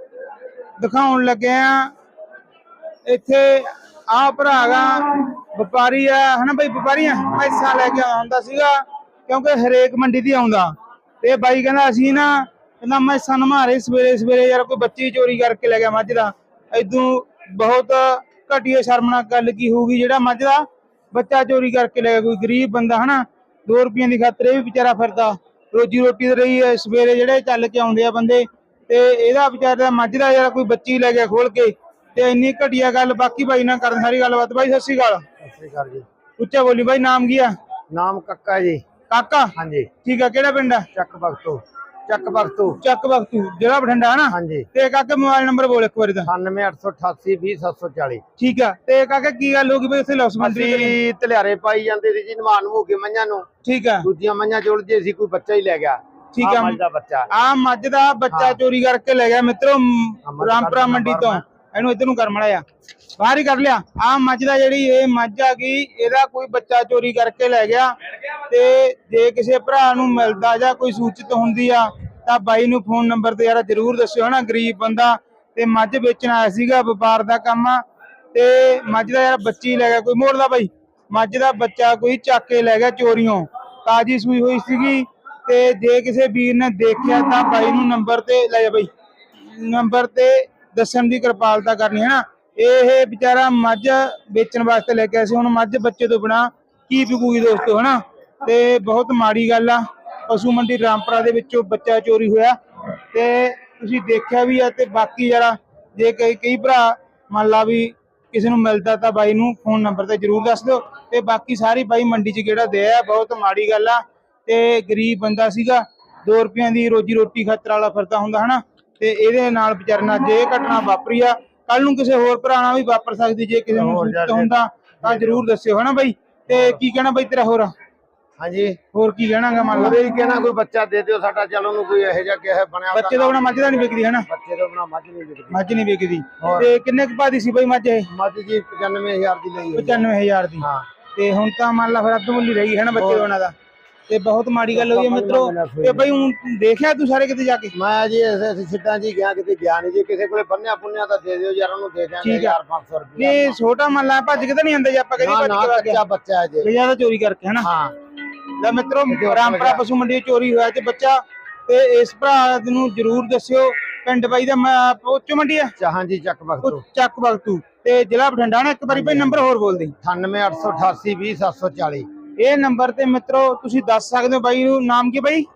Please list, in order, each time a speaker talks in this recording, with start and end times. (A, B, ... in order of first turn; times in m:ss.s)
0:00.8-0:01.9 A
0:03.0-0:35.2 A
0:35.4-0:36.0 B
0:36.4-0:37.5 A
0:37.9-0:38.8 B
0:39.1-0:40.9 A
0:39.6-0:39.9 B
0:40.9-0:42.8 B
0:42.8-0:46.3 A
0:44.3-0:44.7 B
0:46.2-0:48.2 B
0:48.4-0:51.0 A
0:50.4-0:53.5 B
0:53.6-0:54.1 A
0:54.0-0:57.3 B
0:56.3-0:56.8 A
0:57.3-1:02.6 A
0:58.3-0:58.6 B
1:00.2-1:01.4 B
1:03.2-1:07.9 A
1:08.5-1:17.8 A
1:18.3-1:28.9 A
1:29.5-1:42.6 A
1:43.1-2:07.7 A
2:03.7-2:05.4 B
2:06.5-2:06.8 B
2:08.4-2:08.8 B
2:08.9-2:10.0 A
2:09.7-2:15.7 B
2:12.9-2:14.2 A
2:15.5-2:18.1 A
2:16.4-2:16.7 B
2:18.1-2:20.1 B
2:19.7-2:23.5 A
2:20.6-2:20.8 B
2:23.0-2:23.3 B
2:24.1-2:27.7 A
2:24.7-2:26.1 B
2:27.7-2:33.6 B
2:32.2-2:32.6 A
2:33.2-2:36.0 A
2:35.2-2:36.7 B
2:36.6-2:37.7 A
2:37.6-2:37.9 B
2:38.6-2:45.7 A
2:39.1-2:39.8 B
2:45.8-2:46.8 B
2:46.6-2:49.9 A
2:48.9-2:49.4 B
2:50.0-2:52.1 B
2:52.4-2:55.5 A